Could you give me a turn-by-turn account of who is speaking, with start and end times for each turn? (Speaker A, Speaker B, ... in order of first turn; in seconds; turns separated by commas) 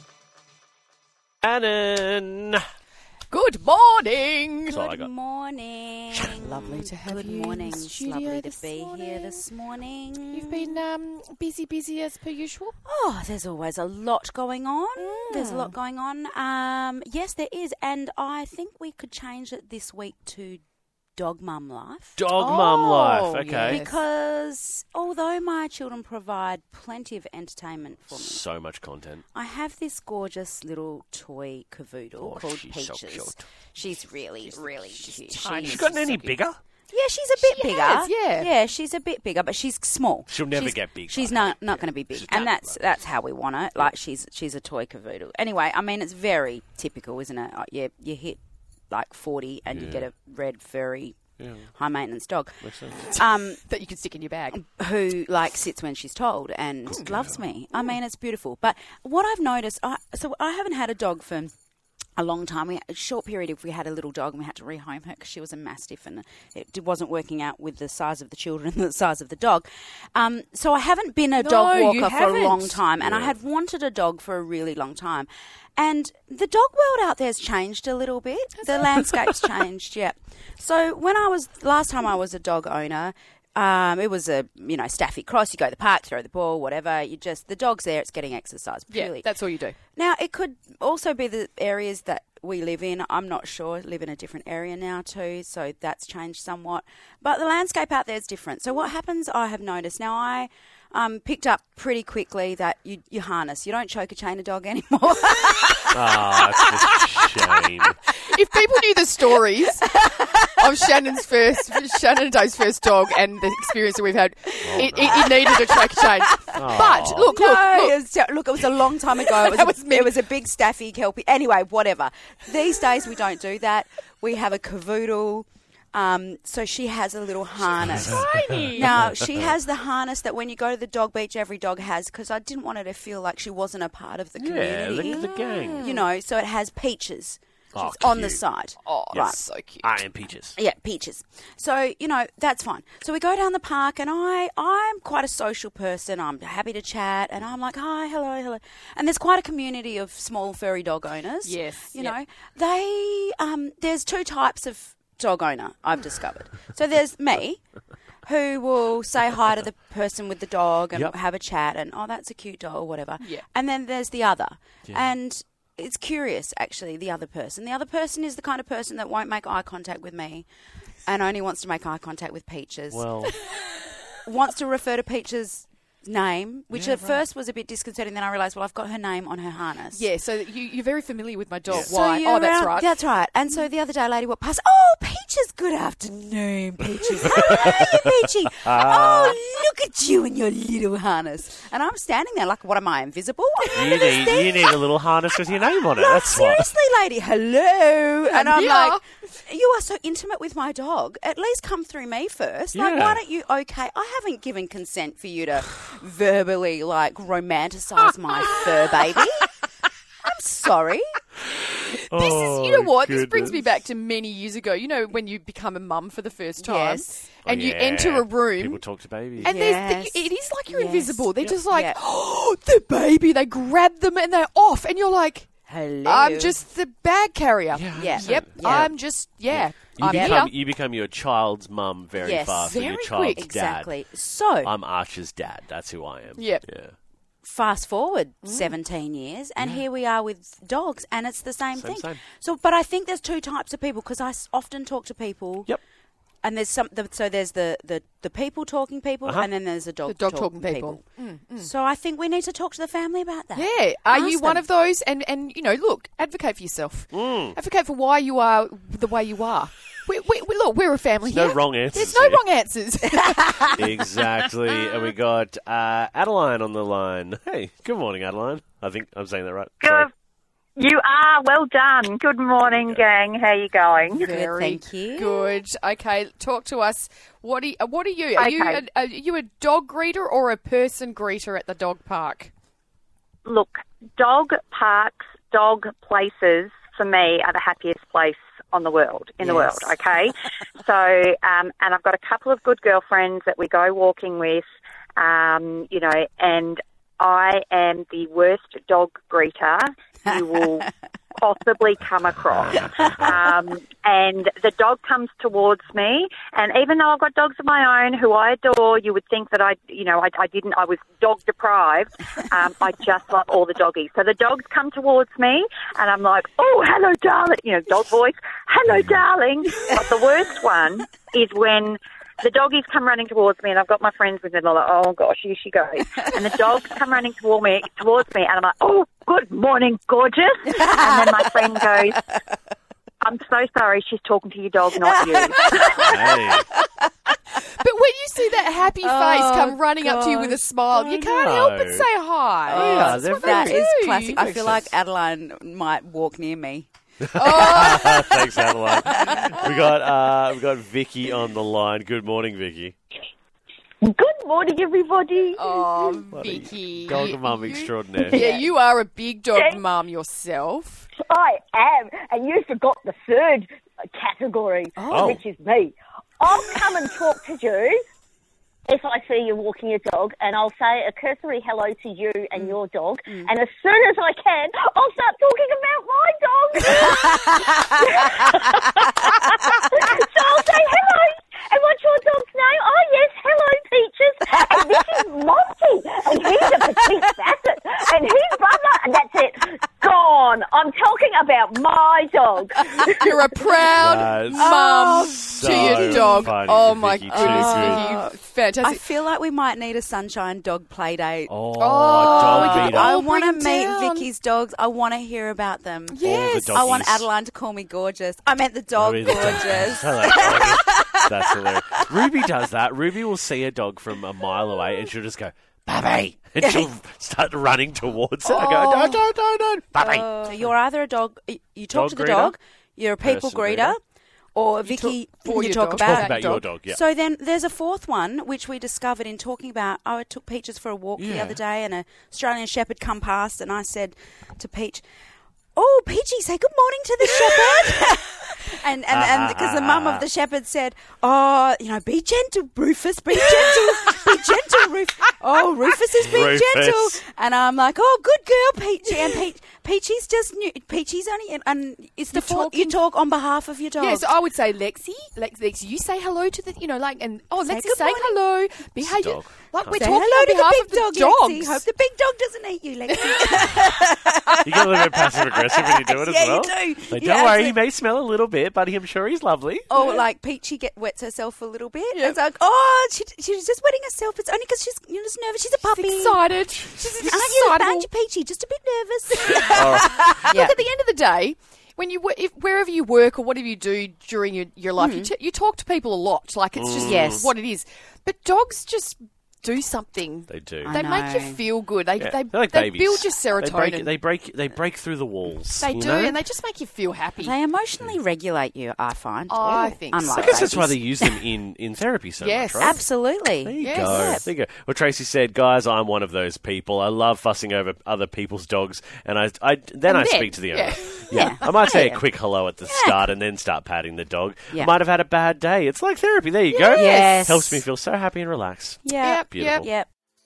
Speaker A: 1.4-2.7, Speaker B: 3.3-4.8, Speaker A: 4.7-5.1, Speaker C: 4.7-10.8, Speaker B: 6.5-9.4, Speaker B: 10.3-12.8, Speaker C: 12.8-20.6, Speaker B: 15.0-15.8, Speaker C: 21.2-28.4, Speaker A: 22.2-23.9, Speaker B: 23.3-23.9, Speaker A: 28.1-29.2, Speaker C: 29.3-36.3, Speaker A: 32.2-33.5, Speaker B: 34.5-36.3, Speaker A: 35.5-36.6, Speaker C: 36.9-48.4, Speaker B: 37.4-38.5, Speaker A: 40.3-42.8, Speaker C: 48.9-51.2, Speaker A: 49.7-50.1, Speaker A: 51.4-51.7, Speaker C: 51.8-53.6, Speaker A: 52.6-53.1, Speaker B: 53.1-54.6, Speaker C: 54.5-61.5, Speaker A: 57.0-57.3, Speaker C: 62.2-89.3, Speaker B: 71.3-72.8, Speaker A: 73.0-73.3, Speaker B: 78.6-79.6, Speaker B: 88.9-89.8, Speaker C: 90.0-107.0, Speaker A: 105.9-108.0, Speaker B: 108.1-118.0, Speaker A: 114.6-115.3, Speaker C: 114.8-115.3, Speaker A: 116.5-117.3, Speaker C: 117.3-135.2, Speaker B: 119.1-120.1, Speaker B: 127.8-129.0, Speaker A: 128.9-129.5, Speaker A: 134.4-135.9, Speaker B: 135.0-136.1, Speaker C: 135.8-139.4, Speaker A: 137.8-138.4, Speaker B: 138.8-140.0, Speaker A: 139.1-140.6, Speaker C: 140.6-157.6, Speaker B: 151.4-152.2, Speaker C: 158.2-170.5, Speaker C: 171.1-173.1, Speaker A: 172.9-173.4, Speaker C: 174.2-180.0, Speaker A: 176.7-177.0, Speaker B: 179.9-182.9, Speaker A: 181.7-181.9, Speaker C: 181.7-194.8, Speaker A: 187.3-187.8, Speaker A: 188.7-189.4, Speaker A: 193.7-196.7, Speaker C: 195.9-209.5, Speaker B: 198.3-199.0, Speaker A: 202.7-203.2, Speaker C: 210.2-211.1, Speaker A: 211.5-213.8, Speaker B: 212.1-218.8, Speaker C: 216.6-217.2, Speaker A: 217.4-219.6, Speaker B: 219.4-225.5, Speaker C: 219.4-222.0, Speaker C: 225.7-226.6, Speaker B: 226.0-230.5, Speaker A: 227.7-233.9, Speaker C: 227.9-228.9, Speaker C: 230.0-230.3, Speaker C: 232.2-232.8, Speaker B: 232.6-233.5, Speaker C: 233.3-234.7, Speaker A: 234.6-237.0, Speaker B: 236.4-236.7, Speaker C: 237.4-245.7, Speaker B: 238.4-238.7, Speaker A: 239.6-239.8, Speaker A: 241.8-242.2, Speaker C: 246.4-251.0, Speaker B: 250.1-251.7, Speaker C: 251.6-254.7, Speaker B: 253.5-264.2, Speaker A: 257.1-257.6, Speaker A: 261.3-262.4, Speaker A: 263.8-270.1, Speaker D: 269.8-270.1, Speaker D: 270.8-274.3, Speaker A: 272.6-273.1, Speaker B: 274.1-282.5, Speaker C: 274.2-275.6, Speaker D: 278.4-278.8, Speaker D: 283.4-294.6, Speaker A: 289.6-289.8, Speaker D: 295.2-332.2, Speaker C: 330.8-331.5, Speaker D: 333.2-336.1, Speaker C: 335.0-336.6, Speaker A: 336.0-336.7, Speaker B: 337.6-344.4, Speaker C: 339.0-340.7, Speaker A: 340.9-342.1, Speaker C: 342.7-346.9, Speaker A: 342.7-344.9, Speaker A: 347.2-353.0, Speaker B: 347.3-349.5, Speaker E: 354.0-356.2, Speaker B: 355.6-361.1, Speaker A: 356.3-358.4, Speaker E: 359.6-359.8, Speaker E: 361.2-368.1, Speaker C: 365.0-365.4, Speaker A: 365.1-365.4, Speaker E: 368.9-378.9, Speaker E: 379.5-393.4, Speaker B: 393.1-399.0, Speaker A: 393.9-398.1, Speaker C: 394.6-396.5, Speaker C: 397.3-401.5, Speaker A: 401.5-403.2, Speaker B: 401.8-404.3, Speaker C: 402.2-412.3, Speaker B: 406.1-406.9, Speaker A: 406.2-407.3, Speaker A: 409.0-420.7, Speaker C: 416.6-416.9, Speaker B: 418.4-419.2, Speaker C: 420.0-424.0, Speaker A: 421.9-422.6, Speaker A: 423.2-424.0, Speaker C: 424.6-435.0, Speaker B: 424.9-426.6, Speaker A: 426.0-427.0, Speaker A: 431.2-431.6, Speaker C: 435.8-454.3, Speaker A: 439.1-440.2, Speaker A: 443.7-444.2, Speaker A: 446.2-447.2, Speaker B: 452.3-453.0, Speaker B: 454.0-461.9, Speaker C: 457.7-458.4, Speaker A: 459.0-460.1, Speaker C: 459.9-467.8, Speaker A: 464.6-469.9, Speaker C: 469.9-476.4, Speaker B: 475.9-478.1, Speaker C: 477.2-480.8, Speaker B: 479.4-494.1, Speaker A: 479.7-480.1, Speaker C: 485.0-485.3, Speaker A: 486.8-487.5, Speaker A: 490.5-491.0, Speaker C: 490.8-491.6, Speaker A: 492.2-496.4, Speaker B: 495.8-497.6, Speaker C: 497.4-501.1, Speaker B: 499.5-500.7, Speaker A: 500.2-503.0, Speaker B: 502.4-503.0, Speaker C: 502.8-504.5, Speaker A: 503.6-519.9, Speaker B: 503.8-504.3, Speaker B: 510.1-512.2, Speaker C: 511.3-512.2, Speaker C: 512.8-513.3, Speaker B: 516.7-517.5, Speaker C: 516.9-517.8, Speaker C: 519.0-520.1, Speaker B: 519.2-519.9